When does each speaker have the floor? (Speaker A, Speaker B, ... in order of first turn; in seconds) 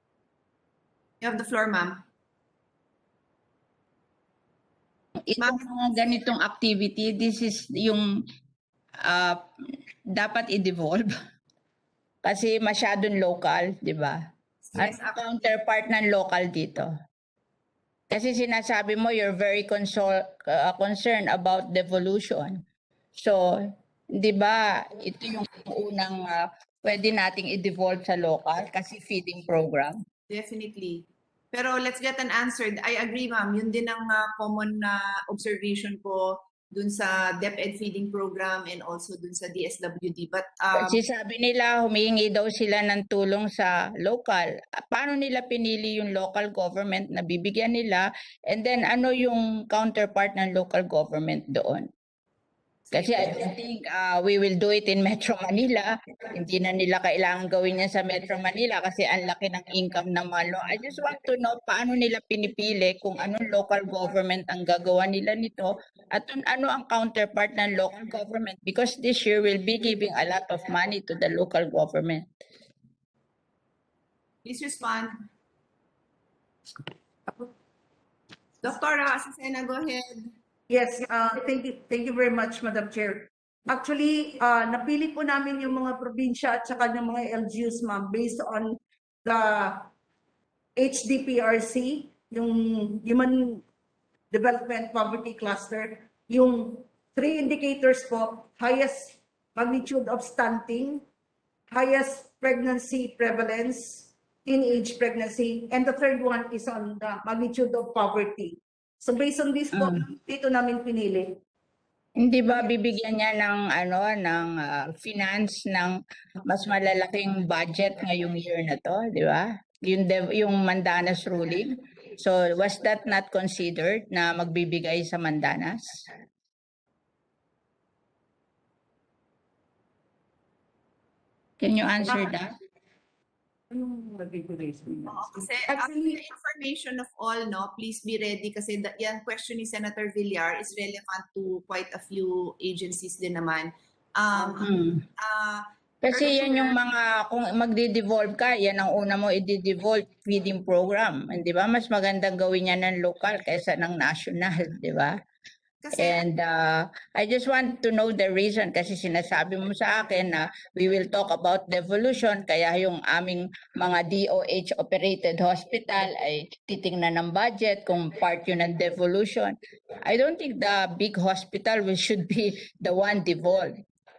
Speaker A: 1.2-2.0, 14.7-15.5, 30.3-41.0, 52.9-53.5, 74.4-75.1, 78.6-80.3, 135.1-146.8, 155.8-156.2
Speaker B: 5.3-8.1, 9.0-9.4, 10.1-11.1, 12.2-14.2, 14.8-16.9, 18.1-22.6, 24.2-29.9, 40.8-51.9, 52.9-72.2, 109.7-110.0, 112.2-126.1, 131.6-132.5, 144.6-145.0, 146.0-155.1, 155.9-169.5, 170.1-173.7
Speaker C: 80.7-89.9, 90.8-93.6, 94.3-101.0, 101.7-111.2, 133.7-136.2